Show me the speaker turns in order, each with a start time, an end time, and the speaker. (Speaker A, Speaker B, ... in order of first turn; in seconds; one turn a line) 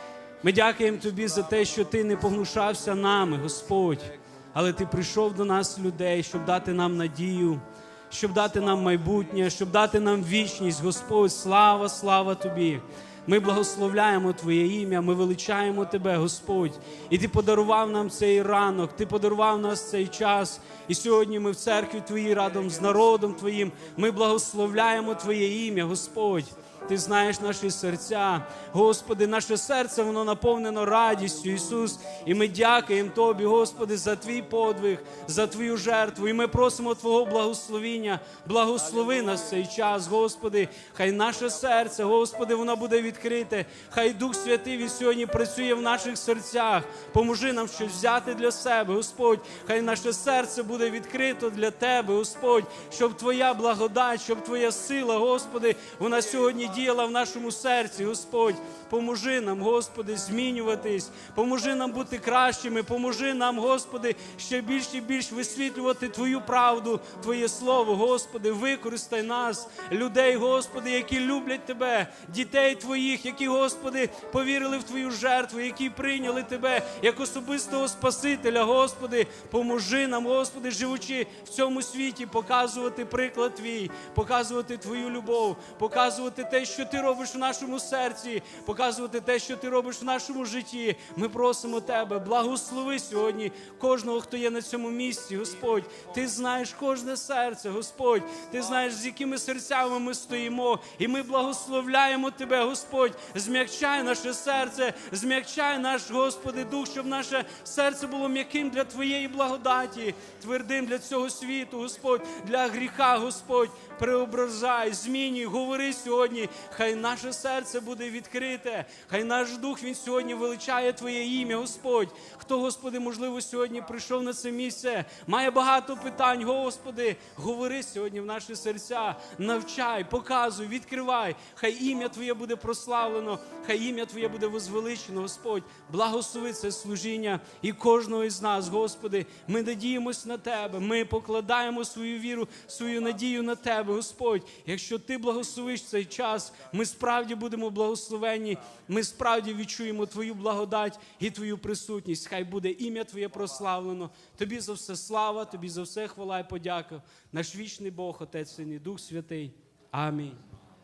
Speaker A: 0.4-160.4